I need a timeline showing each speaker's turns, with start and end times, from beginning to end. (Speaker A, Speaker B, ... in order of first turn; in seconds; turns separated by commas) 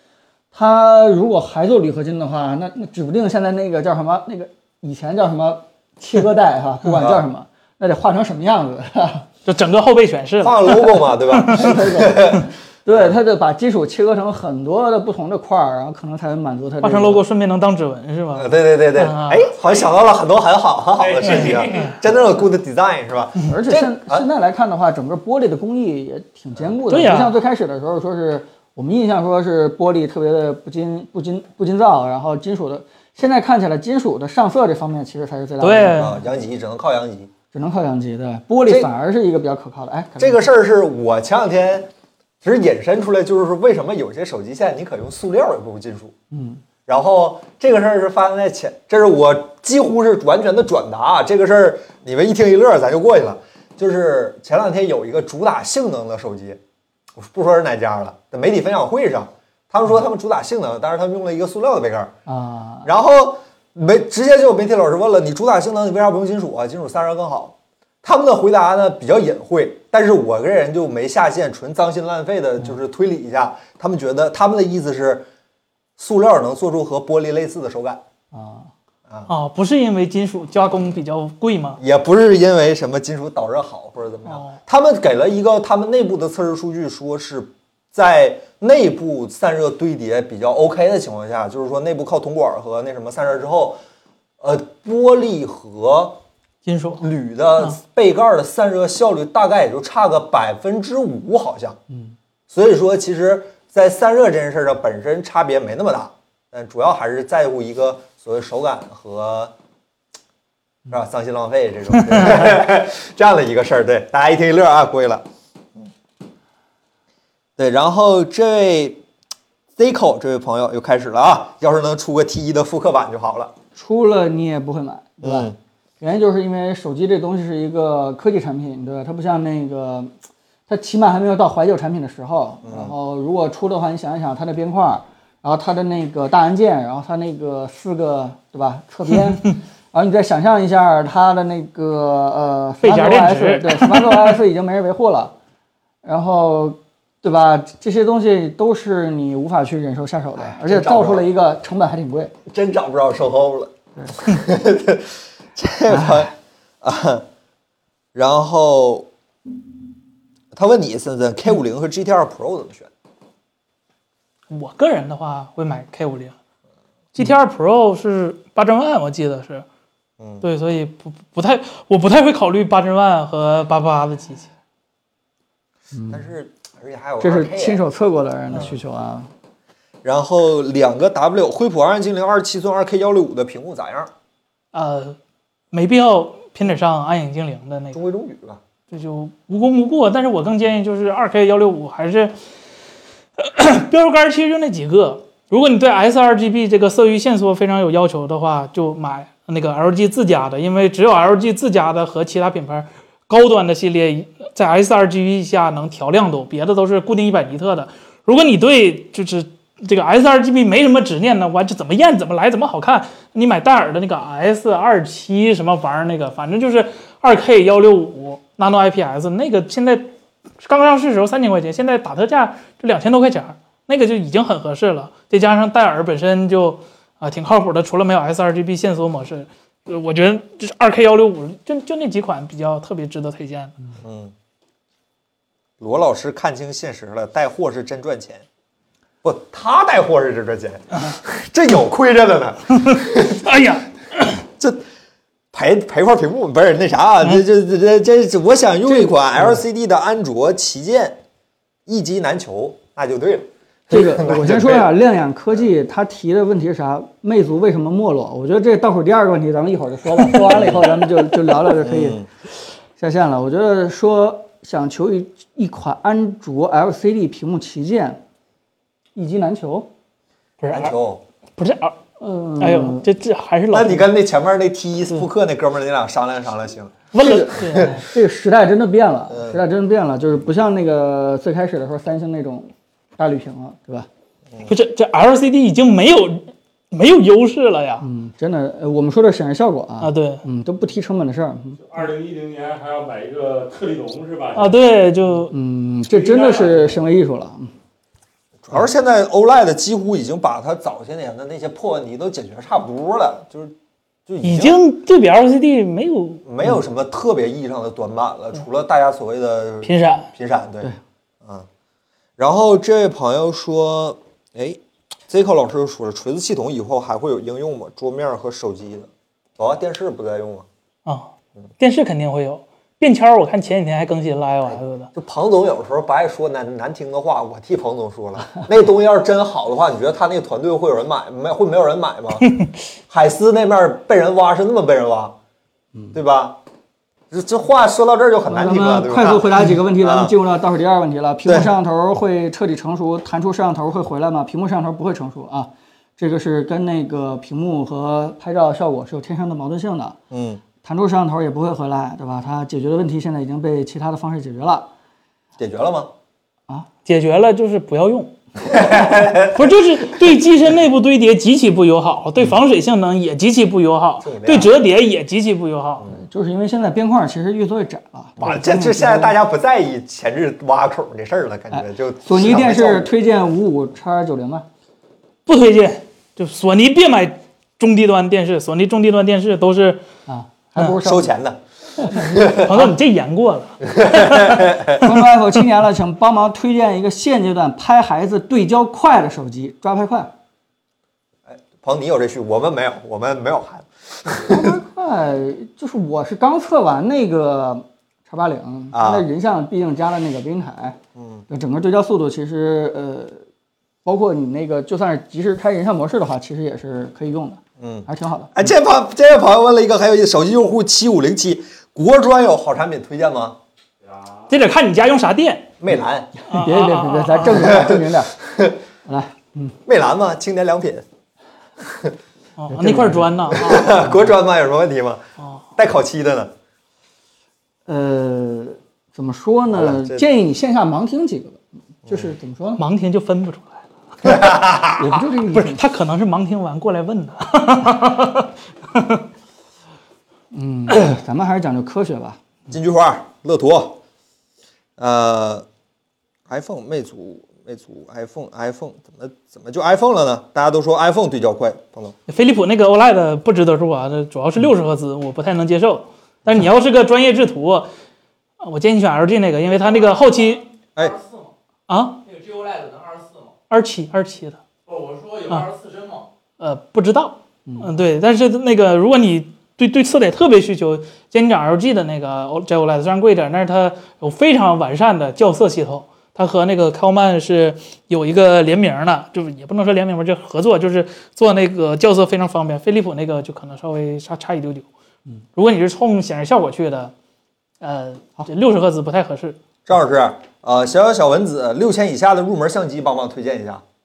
Speaker A: 0.5-9.3, Speaker B: 7.0-7.2, Speaker C: 9.5-11.7, Speaker B: 10.4-13.1, Speaker A: 11.5-17.2, Speaker C: 16.8-19.5, Speaker B: 18.4-24.3, Speaker D: 21.0-22.2, Speaker C: 21.6-21.9, Speaker A: 23.5-36.1, Speaker C: 26.9-27.4, Speaker C: 35.6-36.2, Speaker B: 35.9-37.3, Speaker A: 37.5-40.5, Speaker B: 40.2-41.9, Speaker B: 42.4-46.1, Speaker A: 46.3-46.6, Speaker B: 46.9-56.6, Speaker B: 57.2-62.1, Speaker A: 62.3-62.9, Speaker B: 62.8-75.3, Speaker B: 76.0-78.0, Speaker A: 78.3-78.7, Speaker C: 79.3-81.8, Speaker B: 81.8-93.8, Speaker C: 84.3-84.6, Speaker B: 94.4-96.2, Speaker C: 96.7-97.0, Speaker B: 97.0-101.8, Speaker B: 102.5-109.5, Speaker B: 110.9-115.2, Speaker B: 117.6-119.0, Speaker B: 119.8-123.5, Speaker A: 123.8-130.1, Speaker B: 125.2-125.6, Speaker A: 130.7-145.3, Speaker B: 132.6-132.9, Speaker C: 142.8-144.3, Speaker A: 146.0-152.3, Speaker B: 150.6-151.3, Speaker B: 152.5-157.3, Speaker A: 155.9-156.3, Speaker B: 158.1-159.1, Speaker B: 160.5-162.9, Speaker C: 164.5-166.4, Speaker C: 167.2-169.7, Speaker C: 170.4-174.5, Speaker A: 175.9-176.3, Speaker B: 176.1-177.8, Speaker A: 177.2-179.3, Speaker B: 180.0-184.1, Speaker C: 184.7-185.2, Speaker C: 185.7-188.0, Speaker B: 187.9-188.6, Speaker C: 188.9-192.3, Speaker C: 193.4-220.1, Speaker C: 220.6-233.8, Speaker B: 234.0-234.3, Speaker B: 235.8-238.5, Speaker B: 239.2-243.5, Speaker C: 242.8-244.4, Speaker B: 244.6-244.8, Speaker B: 245.5-251.2, Speaker B: 251.9-254.9, Speaker A: 253.9-262.2, Speaker B: 260.5-260.9, Speaker B: 261.7-262.3, Speaker A: 263.0-268.2, Speaker A: 269.1-269.9, Speaker C: 270.6-270.9, Speaker B: 270.7-271.2, Speaker C: 271.6-272.0, Speaker A: 272.2-273.1, Speaker C: 272.6-274.1, Speaker B: 273.7-277.0, Speaker C: 277.1-278.0, Speaker A: 277.2-284.1, Speaker B: 277.6-278.0, Speaker B: 279.3-279.6, Speaker C: 284.7-288.1, Speaker A: 288.0-291.8, Speaker C: 290.0-290.4, Speaker D: 291.8-294.8, Speaker C: 294.6-295.5, Speaker A: 295.5-297.7, Speaker D: 296.1-296.9, Speaker B: 298.6-303.8, Speaker B: 304.3-304.8, Speaker C: 304.4-306.4, Speaker B: 306.4-310.9, Speaker C: 309.8-310.3, Speaker B: 312.4-320.7, Speaker C: 321.1-325.1, Speaker B: 324.7-332.5, Speaker C: 332.4-332.7, Speaker B: 333.1-335.4, Speaker B: 336.1-336.6, Speaker B: 337.3-340.4, Speaker A: 338.5-350.2, Speaker B: 341.5-341.7, Speaker B: 350.3-350.6, Speaker A: 350.8-354.9, Speaker B: 355.6-356.1, Speaker C: 357.1-358.4, Speaker B: 358.6-359.7, Speaker C: 359.3-366.1, Speaker B: 364.2-364.7, Speaker A: 366.1-369.4, Speaker B: 368.4-373.1, Speaker A: 371.7-374.7, Speaker C: 375.5-380.0, Speaker A: 380.3-381.3, Speaker B: 381.0-382.8, Speaker C: 382.3-385.1, Speaker B: 383.8-385.0, Speaker A: 385.0-390.3, Speaker B: 391.5-394.8, Speaker A: 394.3-401.0, Speaker B: 398.9-399.3, Speaker B: 401.2-401.4, Speaker A: 401.5-403.4, Speaker A: 404.1-408.6, Speaker B: 407.8-413.6, Speaker D: 414.0-414.5, Speaker C: 414.5-415.7, Speaker B: 415.8-416.3, Speaker C: 416.5-417.6, Speaker A: 416.5-418.4, Speaker B: 417.5-418.8, Speaker A: 419.1-419.8, Speaker B: 419.9-421.1, Speaker B: 421.8-422.1, Speaker C: 422.6-424.1, Speaker A: 422.7-424.2, Speaker B: 423.5-425.2, Speaker B: 425.8-426.5, Speaker A: 427.9-432.8, Speaker B: 429.7-430.2, Speaker C: 432.8-434.3, Speaker B: 434.2-435.1, Speaker A: 434.9-435.8, Speaker C: 435.5-439.2, Speaker A: 440.5-442.4, Speaker B: 442.7-444.0, Speaker B: 445.0-445.7, Speaker B: 446.5-452.1, Speaker C: 452.3-457.9, Speaker C: 458.6-460.6, Speaker E: 459.7-461.5, Speaker C: 461.9-462.2, Speaker E: 462.2-463.6, Speaker C: 463.7-464.6, Speaker E: 464.9-466.3, Speaker C: 466.6-484.9, Speaker A: 467.7-467.9, Speaker C: 485.6-487.1, Speaker C: 487.8-489.6, Speaker B: 489.9-493.8